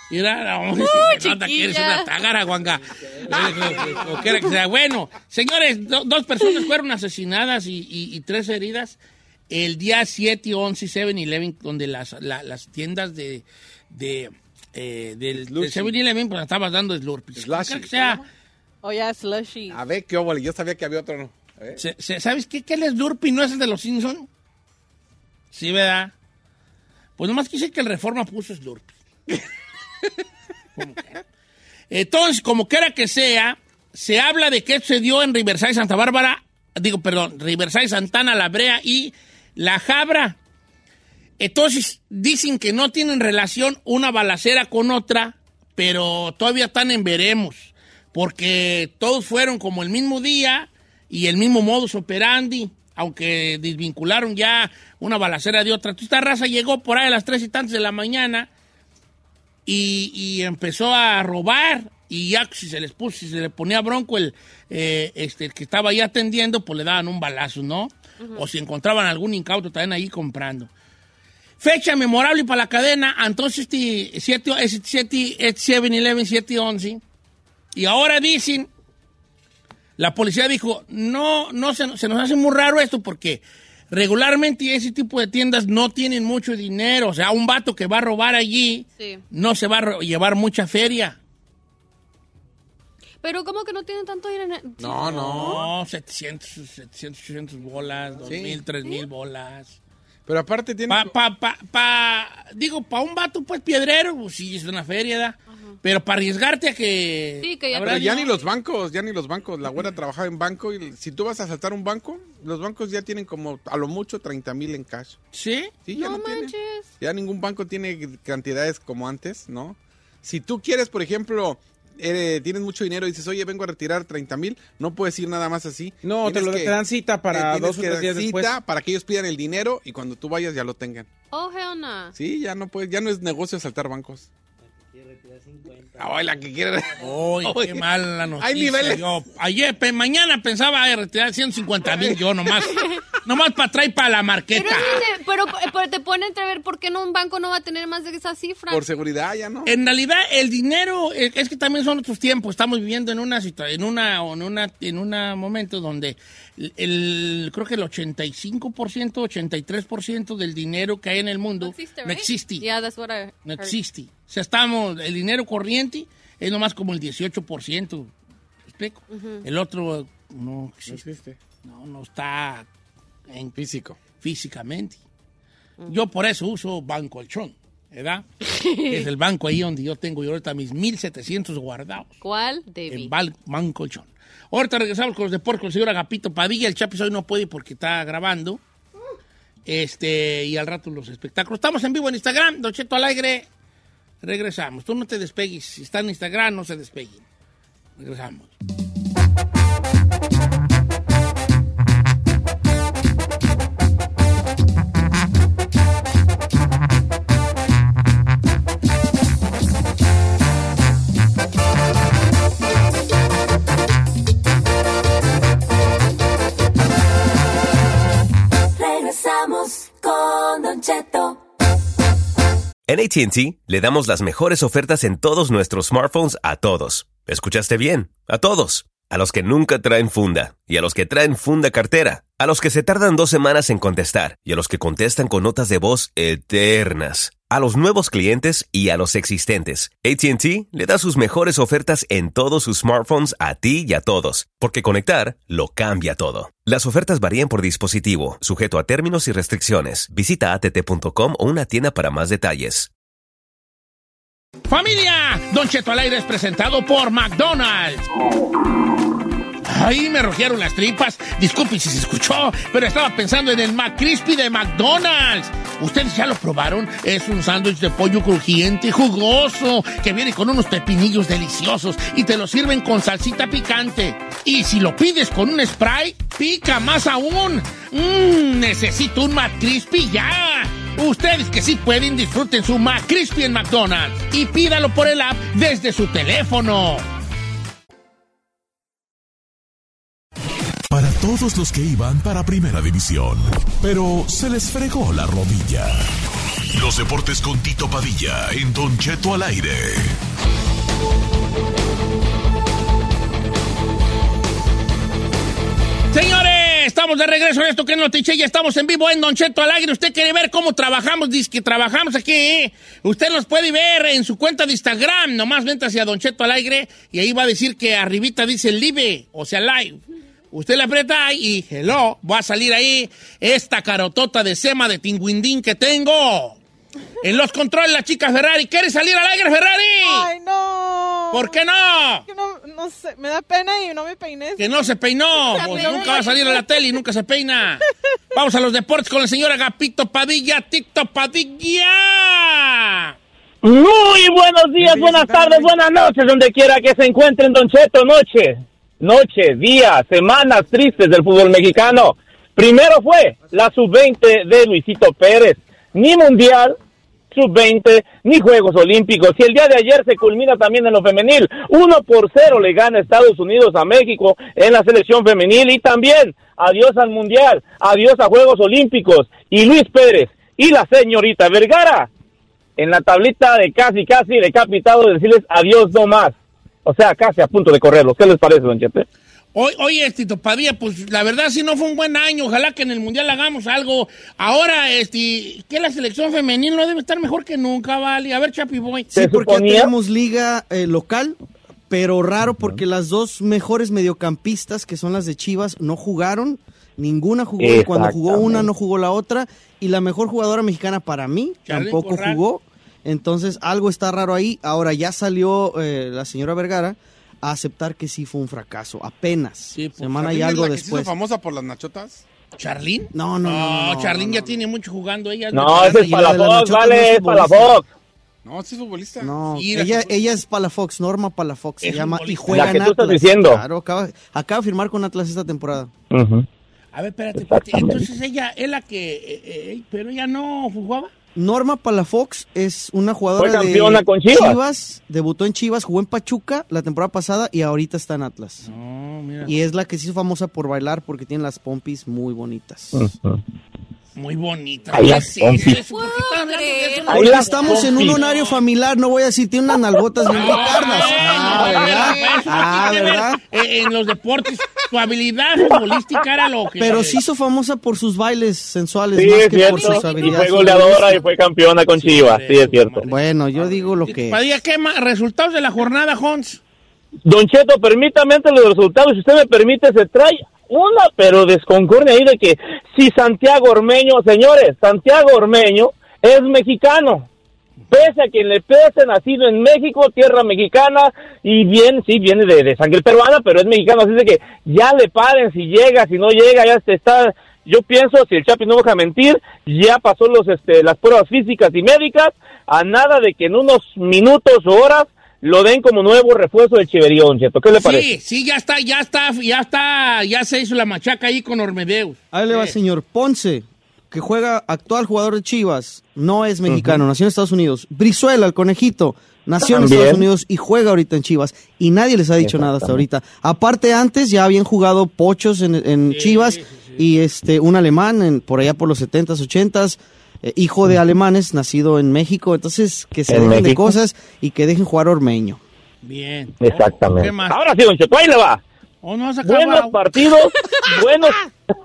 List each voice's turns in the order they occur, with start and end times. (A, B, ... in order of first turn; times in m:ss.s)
0:00.1-0:09.0 A
0:00.8-0:02.1 B
0:03.2-0:04.4 C
0:09.5-0:18.2 A
0:15.3-0:15.9 C
0:17.4-0:18.2 C
0:18.8-0:19.8 D
0:19.7-0:21.8 C
0:21.8-0:24.3 A
0:25.5-0:26.1 A
0:27.2-0:28.9 A
0:30.8-0:31.2 A
0:31.9-0:40.4 A
0:41.4-0:58.5 A
0:59.6-1:10.7 A
1:11.6-1:17.0 A
1:17.7-1:18.7 A
1:20.0-1:31.2 A
1:33.2-1:35.6 B
1:34.8-1:35.7 C
1:35.2-1:39.8 A
1:38.2-1:38.6 C
1:40.3-1:41.1 C
1:40.9-1:48.3 A
1:47.4-1:48.3 B
1:47.7-1:55.2 C
1:55.3-1:55.7 A
1:55.8-2:06.8 C
1:55.9-1:56.9 B
2:06.0-2:08.6 E
2:07.3-2:11.1 C
2:11.3-2:12.1 B
2:12.1-2:14.3 C
2:16.0-2:17.8 C
2:17.0-2:25.0 A
2:18.4-2:19.0 C
2:21.8-2:22.6 C
2:24.5-2:28.8 B
2:28.7-2:29.7 C
2:29.6-2:42.7 A
2:41.6-2:43.7 B
2:43.4-2:48.1 A
2:48.7-2:51.0 A
2:49.1-2:49.4 B
2:50.9-2:51.4 C
2:51.6-2:52.7 A
2:53.3-2:53.6 A
2:53.6-2:54.0 C
2:54.2-2:55.0 A
2:55.9-2:58.2 A
2:58.4-2:59.1 B
2:58.9-3:02.2 A
3:02.2-3:03.1 B
3:02.9-3:08.6 A
3:09.6-3:13.5 A
3:14.2-3:17.2 A
3:18.0-3:18.5 A
3:38.7-3:41.4 F
3:42.9-4:12.9 G
4:14.7-4:18.0 A
4:19.6-4:47.0 A
4:50.9-4:56.0 H
4:56.7-5:00.2 H
5:06.1-5:20.0 A
5:20.5-5:26.6 A
5:27.2-5:30.3 A
5:30.0-5:31.6 D
5:31.3-5:32.2 A
5:32.3-5:34.8 D
5:34.6-5:43.1 A
5:35.4-5:36.6 B
5:35.6-5:36.2 D
5:43.6-5:56.8 I
5:45.0-5:45.5 E
5:57.3-6:12.1 I
6:12.8-6:16.3 I
6:16.8-6:19.0 I
6:19.5-6:29.1 A
6:29.1-6:31.4 J
6:29.1-6:29.9 I
6:31.9-6:51.1 J
6:37.6-6:38.7 I
6:41.6-6:42.4 A
6:49.7-6:50.2 A
6:50.1-6:52.2 C
6:52.6-6:56.2 A
6:53.1-6:54.6 J
6:55.5-6:57.8 I
6:55.7-6:57.8 J
6:58.4-6:59.3 C
6:59.2-7:05.9 J
6:59.5-7:00.2 A
7:01.8-7:02.8 A
7:02.5-7:03.6 I
7:06.1-7:06.4 I
7:06.9-7:11.1 A
7:07.5-7:08.0 I
7:11.3-7:18.7 J
7:13.4-7:14.6 I
7:18.6-7:19.6 A
7:19.4-7:23.1 J
7:22.9-7:23.4 I
7:24.2-7:28.4 A
7:24.9-7:25.8 I
7:25.6-7:28.5 B
7:27.1-7:33.4 J
7:27.1-7:28.2 I
7:30.3-7:37.2 A
7:30.4-7:31.1 C
7:31.2-7:33.1 B
7:35.7-7:36.2 I
7:36.8-7:41.2 J
7:39.1-7:43.1 I
7:39.6-7:41.3 B
7:41.9-7:46.6 A
7:43.1-7:44.4 J
7:47.2-7:57.3 I
7:57.9-8:18.1 I
8:17.7-8:22.7 A
8:22.3-8:45.6 J
8:26.7-8:27.0 I
8:29.6-8:30.2 I
8:32.4-8:33.0 I
8:36.1-8:37.0 A
8:43.3-8:44.0 I
8:46.0-8:47.6 A
8:46.6-8:48.6 I
8:49.0-8:50.0 A
8:49.4-8:51.4 I